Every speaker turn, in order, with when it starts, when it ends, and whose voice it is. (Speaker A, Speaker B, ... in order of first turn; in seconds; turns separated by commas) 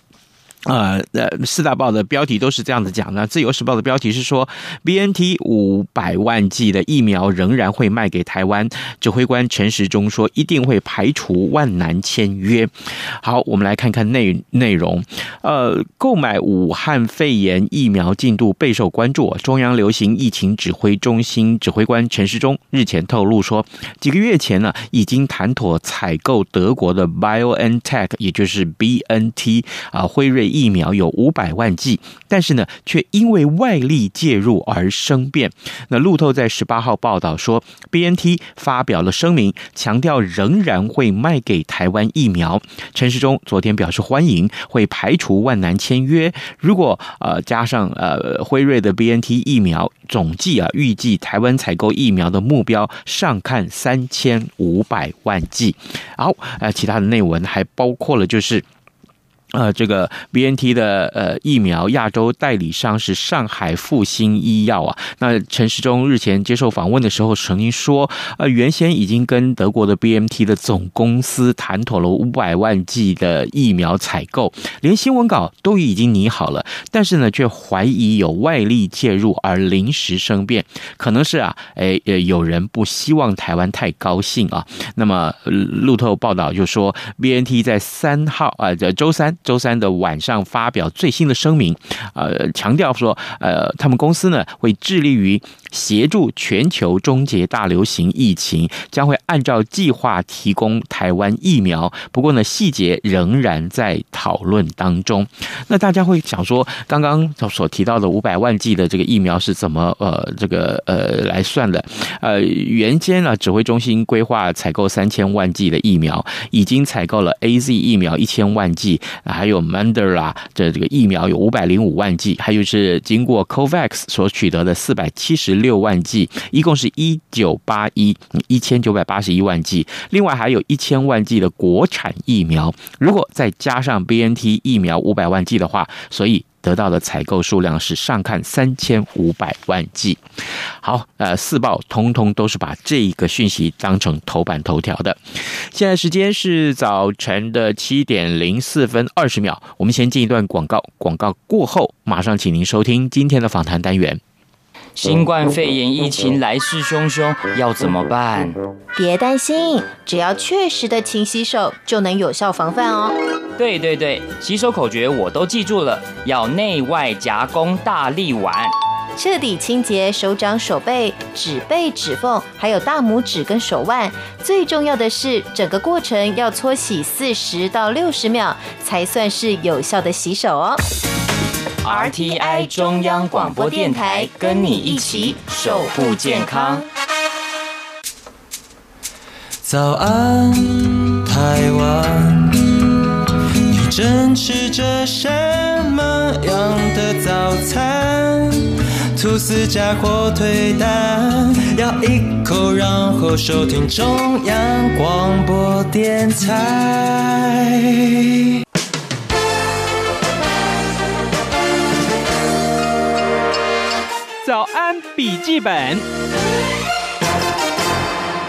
Speaker A: 0.7-58.6, Speaker A: 59.5-140.2, Speaker A: 140.8-154.2, Speaker B: 154.9-158.6, Speaker C: 158.9-163.2, Speaker B: 163.6-168.7, Speaker C: 169.2-180.8, Speaker B: 181.8-186.8, Speaker C: 181.9-186.1, Speaker D: 189.6-193.0, Speaker D: 193.7-208.3, Speaker A: 214.4-216.0